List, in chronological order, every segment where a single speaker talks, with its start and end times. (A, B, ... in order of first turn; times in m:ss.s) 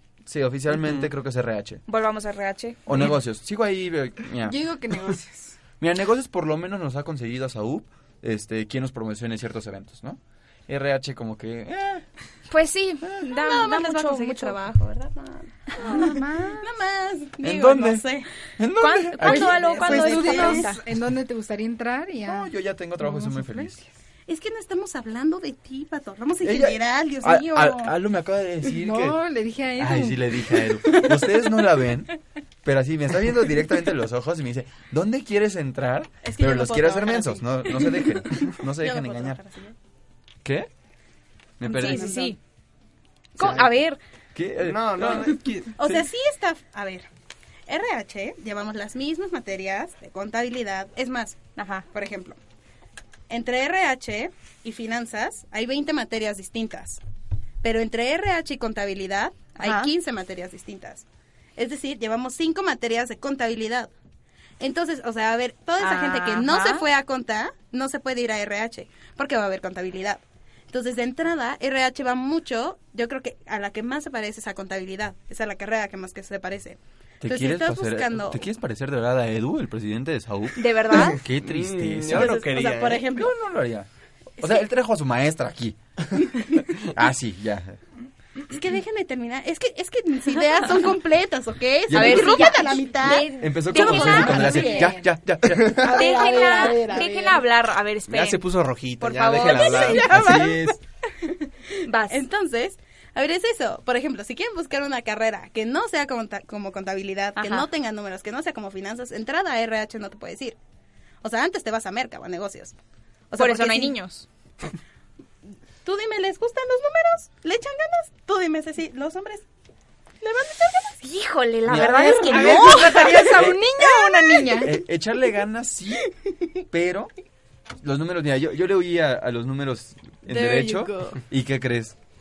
0:00.2-0:01.8 A
0:01.9-0:03.0 B
0:02.8-0:04.6 A
0:04.4-0:05.6 C
0:05.8-0:12.0 A
0:12.5-0:14.6 B
0:13.2-0:18.3 D
0:15.8-0:16.6 C
0:17.4-0:18.0 A
0:18.6-0:19.8 A
0:18.8-0:20.8 B
0:19.2-0:20.7 D
0:19.2-0:23.8 C
0:22.2-0:23.8 A
0:24.3-0:27.9 D
0:26.4-0:29.2 A
0:28.7-0:30.8 C
0:29.8-0:32.1 A
0:32.6-0:39.4 A
0:36.2-0:39.7 D
0:40.4-0:40.7 A
0:41.6-0:42.3 A
0:41.6-0:42.4 B
0:41.7-0:42.3 D
0:43.4-0:44.0 B
0:43.4-0:43.6 A
0:44.3-0:46.0 A
0:44.6-0:45.7 E
0:45.8-0:47.1 D
0:47.7-0:51.4 D
0:51.6-0:51.8 B
0:51.9-0:52.4 D
0:53.3-0:57.0 D
0:57.6-1:01.0 D
0:59.6-0:59.9 B
1:01.6-1:03.9 D
1:04.6-1:18.4 D
1:05.8-1:06.9 B
1:17.2-1:22.4 A
1:20.6-1:21.2 B
1:21.4-1:23.0 E
1:22.1-1:23.3 D
1:23.1-1:23.9 A
1:24.4-1:25.8 A
1:26.8-1:27.8 A
1:28.5-1:34.9 D
1:31.9-1:32.6 A
1:31.9-1:34.9 B
1:33.2-1:36.0 A
1:33.9-1:35.0 C
1:35.7-1:37.4 D
1:35.9-1:38.4 B
1:38.1-1:40.1 E
1:39.0-1:40.0 B
1:39.4-1:41.3 D
1:40.0-1:40.8 A
1:41.8-1:42.2 B
1:42.1-1:50.6 D
1:47.4-1:47.7 B
1:51.2-1:52.8 D
1:53.3-1:54.0 D
1:53.4-1:54.2 B
1:55.8-1:59.4 D
2:00.2-2:01.0 D
2:01.0-2:03.3 B
2:01.7-2:03.6 A
2:01.9-2:04.7 C
2:02.3-2:03.3 D
2:03.9-2:04.6 D
2:04.6-2:06.1 A
2:06.7-2:07.1 A
2:07.8-2:12.0 A
2:10.3-2:11.1 D